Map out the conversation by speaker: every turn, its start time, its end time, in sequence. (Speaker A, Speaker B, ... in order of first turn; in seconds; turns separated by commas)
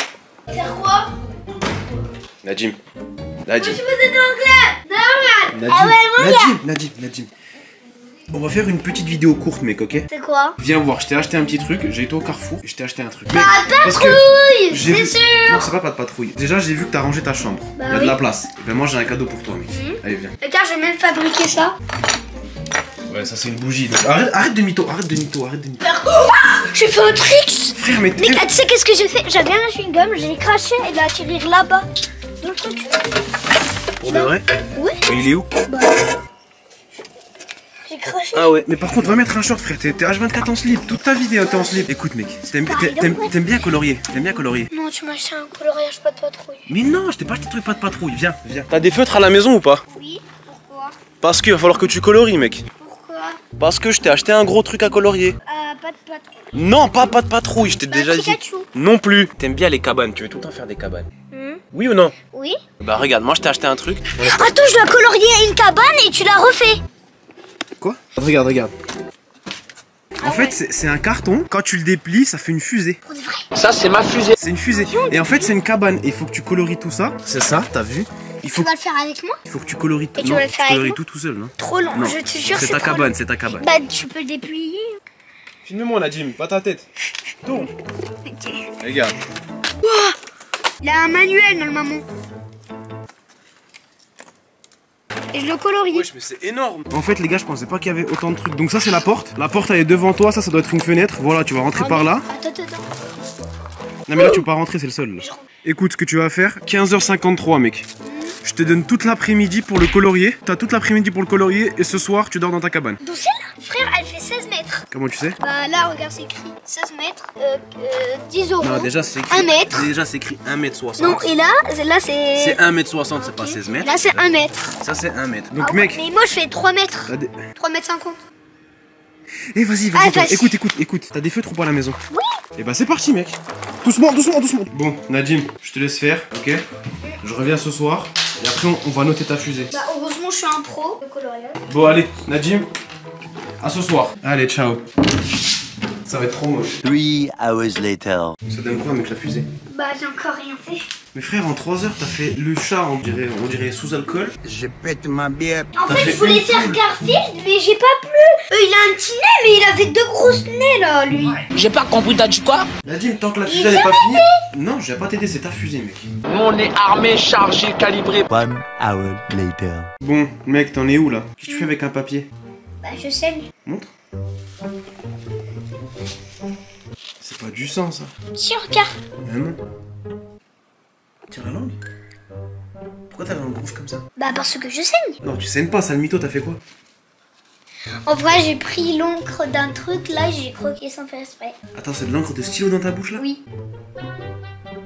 Speaker A: 0.5-1.1, Speaker B: 2.4-2.8, Speaker B: 3.5-3.8, Speaker A: 3.6-6.5, Speaker B: 5.5-7.3, Speaker B: 8.3-10.1, Speaker A: 10.1-10.6, Speaker B: 10.6-20.3, Speaker A: 13.3-15.7, Speaker A: 17.7-18.2, Speaker A: 19.7-21.8, Speaker B: 23.1-25.8, Speaker A: 25.8-31.9, Speaker B: 27.8-28.4, Speaker A: 32.4-33.0, Speaker B: 34.0-34.5, Speaker A: 34.0-35.0, Speaker B: 35.0-35.5, Speaker A: 35.7-36.0, Speaker A: 37.9-38.5, Speaker B: 38.3-44.7, Speaker A: 41.4-41.9, Speaker A: 42.6-43.4, Speaker A: 44.7-46.6, Speaker B: 46.7-49.8, Speaker A: 49.9-51.0, Speaker B: 51.2-52.6, Speaker A: 52.8-53.4, Speaker B: 53.6-55.4, Speaker A: 55.5-56.4, Speaker B: 56.5-61.1, Speaker A: 57.9-58.7, Speaker A: 61.3-61.6, Speaker B: 61.7-62.1, Speaker A: 62.3-62.6, Speaker B: 62.8-64.4, Speaker A: 64.2-66.8, Speaker B: 67.8-68.7, Speaker B: 70.2-73.0, Speaker A: 70.2-70.5, Speaker A: 73.0-73.5, Speaker C: 73.5-74.3, Speaker B: 74.4-78.7, Speaker A: 74.8-75.5, Speaker A: 78.4-79.4, Speaker B: 79.5-83.7, Speaker A: 80.2-81.0, Speaker A: 81.6-85.0, Speaker B: 85.6-86.8, Speaker B: 87.4-87.7, Speaker A: 88.2-88.7, Speaker B: 88.8-89.1, Speaker A: 89.8-90.2, Speaker A: 90.8-92.0, Speaker A: 95.3-96.1, Speaker B: 95.9-102.3, Speaker A: 101.7-102.9, Speaker B: 104.1-107.8, Speaker A: 104.1-104.4, Speaker A: 108.0-108.3, Speaker B: 108.4-113.0, Speaker A: 113.0-114.8, Speaker B: 114.9-115.4, Speaker A: 115.4-119.8, Speaker B: 118.6-121.3, Speaker A: 121.0-122.6, Speaker B: 122.4-124.2, Speaker A: 123.2-124.6, Speaker B: 124.8-126.0, Speaker A: 125.6-128.2, Speaker B: 127.1-127.4, Speaker B: 129.5-132.0, Speaker A: 129.9-130.5, Speaker B: 132.6-136.6, Speaker B: 137.2-139.7, Speaker A: 139.7-141.6, Speaker B: 141.7-142.7, Speaker B: 143.6-144.8, Speaker B: 146.1-146.8, Speaker D: 146.8-148.3, Speaker B: 148.5-149.5, Speaker A: 149.7-150.9, Speaker B: 151.1-154.3, Speaker D: 154.4-155.7, Speaker A: 155.8-161.4, Speaker B: 155.8-156.8, Speaker C: 161.4-162.7, Speaker B: 162.8-166.1, Speaker A: 163.5-164.3, Speaker C: 166.3-168.3, Speaker D: 168.3-169.9, Speaker B: 170.0-172.3, Speaker A: 172.8-173.5, Speaker B: 177.2-178.1, Speaker A: 178.3-178.9, Speaker B: 179.2-179.6, Speaker B: 181.3-181.8, Speaker B: 183.1-184.1, Speaker A: 184.2-185.2, Speaker B: 185.2-186.6, Speaker A: 188.0-191.6, Speaker B: 191.7-193.2